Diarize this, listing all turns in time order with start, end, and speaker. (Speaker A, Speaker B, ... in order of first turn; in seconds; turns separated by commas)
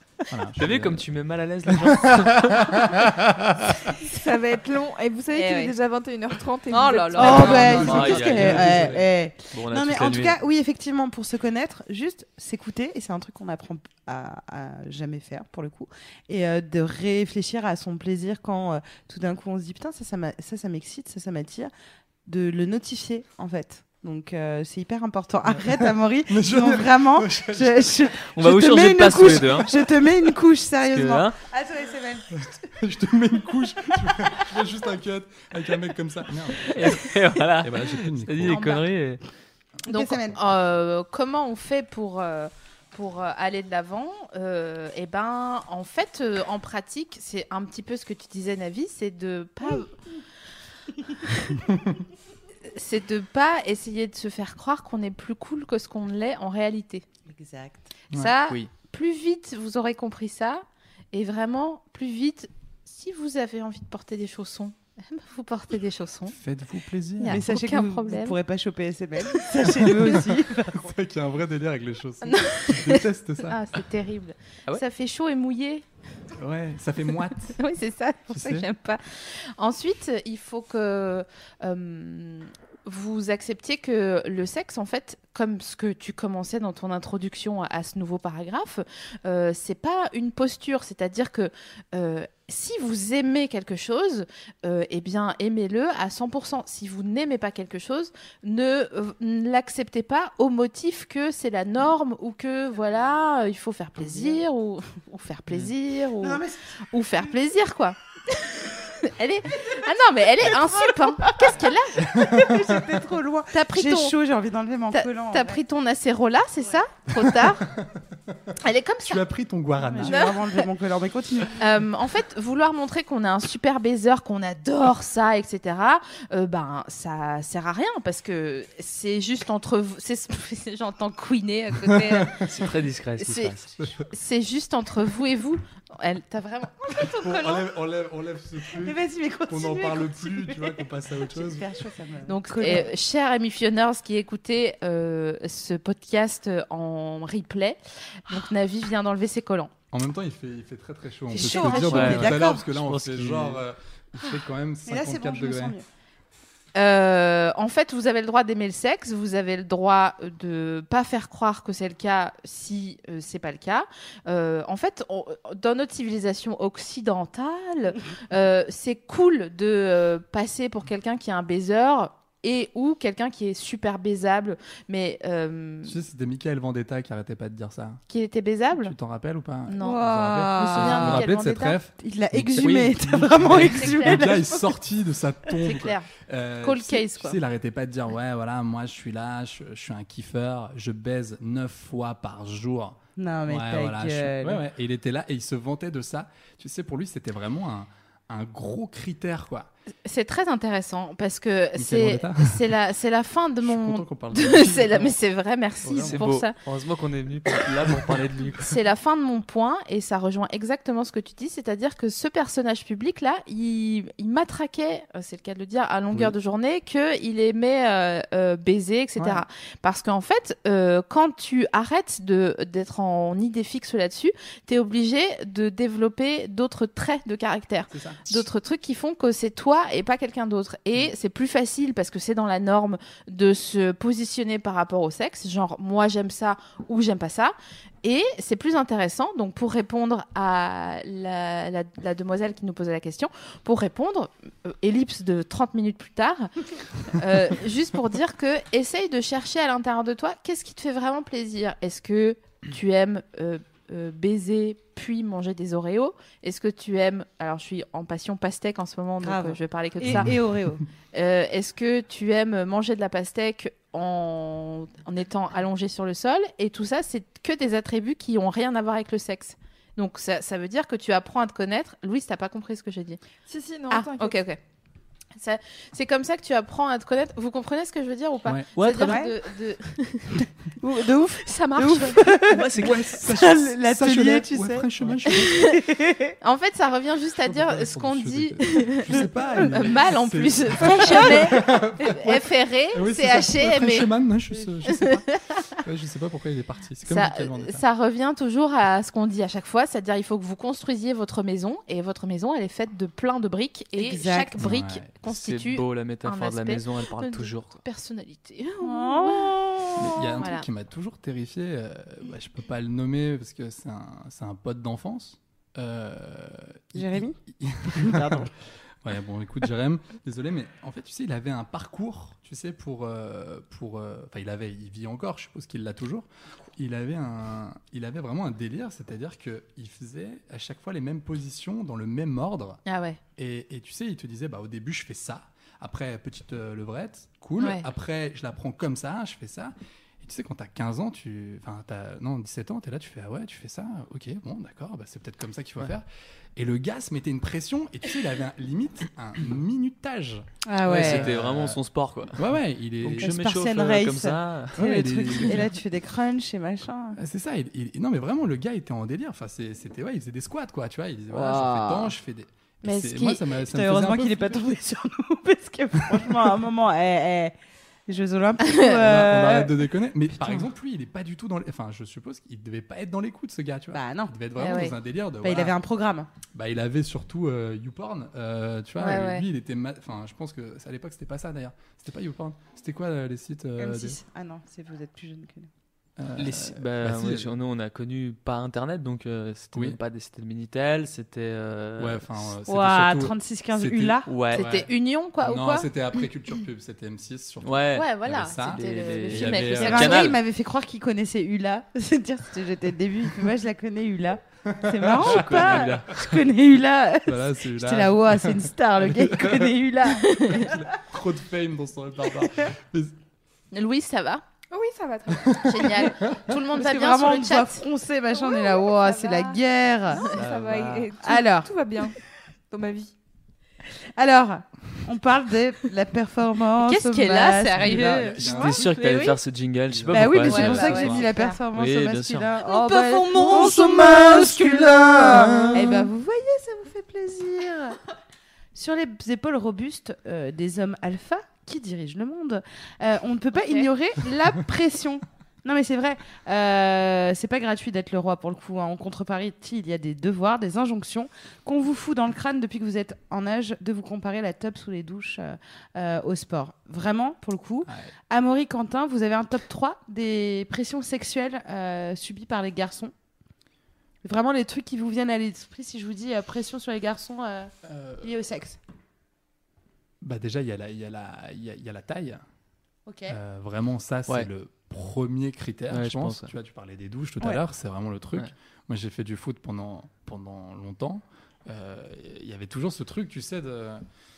Speaker A: 0.3-1.0, Speaker B: 0.6-2.9, Speaker A: 1.8-3.9, Speaker C: 4.0-7.9, Speaker D: 5.3-5.8, Speaker D: 6.7-8.2, Speaker E: 7.1-21.7, Speaker A: 7.2-9.0, Speaker B: 7.3-9.0, Speaker B: 9.5-10.4, Speaker E: 22.3-32.5, Speaker A: 25.5-28.1, Speaker B: 28.3-29.7, Speaker B: 30.9-31.4, Speaker A: 32.4-38.6, Speaker B: 36.6-39.2, Speaker D: 38.5-38.9, Speaker E: 39.9-40.4, Speaker D: 39.9-49.9, Speaker D: 51.2-51.6, Speaker D: 52.7-57.0, Speaker E: 57.3-57.9, Speaker D: 58.1-66.4, Speaker A: 66.3-67.4, Speaker D: 67.2-68.4, Speaker E: 67.3-70.9, Speaker A: 69.7-73.6, Speaker D: 72.2-75.8, Speaker A: 76.4-77.6, Speaker D: 77.4-112.3, Speaker A: 78.3-78.7, Speaker E: 104.0-104.4, Speaker E: 106.2-106.7, Speaker E: 110.4-111.5, Speaker E: 112.1-115.6, Speaker A: 112.2-112.7, Speaker D: 113.5-114.2, Speaker D: 114.9-117.7, Speaker A: 117.3-117.9, Speaker D: 118.6-119.2, Speaker A: 119.0-120.3, Speaker E: 119.8-121.6, Speaker D: 120.0-120.4, Speaker D: 121.6-132.4, Speaker A: 131.9-132.6, Speaker B: 132.5-133.7, Speaker D: 133.2-137.7, Speaker A: 133.8-134.1, Speaker A: 137.1-141.7, Speaker E: 138.7-142.9, Speaker D: 142.3-149.7, Speaker A: 149.9-155.8, Speaker D: 151.3-152.5, Speaker E: 151.3-152.6, Speaker B: 151.9-153.6, Speaker E: 154.9-155.9, Speaker D: 156.8-176.0, Speaker A: 175.9-178.0, Speaker D: 178.1-178.9, Speaker A: 178.8-199.7, Speaker D: 179.7-181.8, Speaker E: 179.8-181.3, Speaker E: 182.0-184.8, Speaker D: 183.5-184.4, Speaker D: 185.6-186.1, Speaker D: 186.6-187.4, Speaker E: 193.2-194.6, Speaker D: 200.1-206.6, Speaker A: 201.8-202.7, Speaker A: 203.6-205.2, Speaker A: 205.8-206.2, Speaker B: 206.0-208.8, Speaker D: 208.6-246.5, Speaker A: 227.9-228.3, Speaker D: 247.1-260.3, Speaker E: 259.2-260.8, Speaker A: 260.1-260.4, Speaker D: 261.1-273.2, Speaker C: 273.5-274.4, Speaker D: 273.9-274.6, Speaker D: 275.4-280.4, Speaker B: 278.8-279.3, Speaker E: 279.1-279.3, Speaker E: 280.8-286.4, Speaker D: 281.2-282.4, Speaker B: 282.5-283.2, Speaker A: 282.8-285.7, Speaker D: 285.3-285.8, Speaker D: 286.4-294.1, Speaker A: 287.5-295.2, Speaker E: 290.8-291.6, Speaker D: 294.9-295.8, Speaker A: 295.8-297.8, Speaker D: 297.1-310.7, Speaker E: 304.0-304.7, Speaker A: 304.6-305.1, Speaker B: 305.3-307.8, Speaker E: 308.8-310.5, Speaker A: 310.0-318.5, Speaker E: 316.9-318.5, Speaker A: 319.0-332.8, Speaker D: 332.9-333.2, Speaker A: 333.4-351.8, Speaker D: 337.6-337.9, Speaker E: 350.7-351.3, Speaker B: 350.9-354.8, Speaker A: 352.4-353.3, Speaker E: 353.2-357.2, Speaker A: 354.8-355.7, Speaker A: 357.2-364.6, Speaker E: 361.3-362.2, Speaker D: 362.8-363.4, Speaker E: 363.6-367.6, Speaker E: 368.1-370.7, Speaker D: 368.6-369.0, Speaker A: 368.9-375.8, Speaker E: 373.9-376.3, Speaker D: 374.6-374.9, Speaker A: 376.5-384.2, Speaker D: 379.0-379.4, Speaker E: 383.8-385.7, Speaker A: 386.2-387.5, Speaker B: 386.4-392.5, Speaker A: 392.0-394.9, Speaker E: 392.7-394.3, Speaker B: 394.3-394.7, Speaker D: 394.5-395.9, Speaker A: 395.4-400.2, Speaker B: 397.6-400.4, Speaker D: 397.9-400.4, Speaker E: 399.8-410.9, Speaker A: 404.7-406.0, Speaker B: 405.2-406.2, Speaker A: 407.3-409.7, Speaker D: 410.2-410.8, Speaker A: 410.7-413.1, Speaker D: 413.7-414.4, Speaker C: 414.7-416.0, Speaker D: 415.5-417.9, Speaker E: 416.7-420.2, Speaker C: 418.3-419.6, Speaker C: 420.1-422.2, Speaker B: 420.3-421.1, Speaker E: 421.2-421.7, Speaker C: 422.7-423.1, Speaker E: 424.1-428.3, Speaker D: 426.8-429.4, Speaker A: 427.8-428.9, Speaker B: 428.4-432.6, Speaker A: 429.9-431.2, Speaker E: 430.1-438.0, Speaker D: 430.5-431.6, Speaker D: 432.6-433.9, Speaker B: 433.4-434.8, Speaker A: 433.5-436.1, Speaker B: 435.4-435.6, Speaker E: 438.7-463.1, Speaker D: 443.6-443.9, Speaker E: 464.2-468.8, Speaker A: 467.9-468.3, Speaker A: 470.2-472.4, Speaker E: 473.1-473.4, Speaker A: 473.3-484.0, Speaker B: 475.9-476.5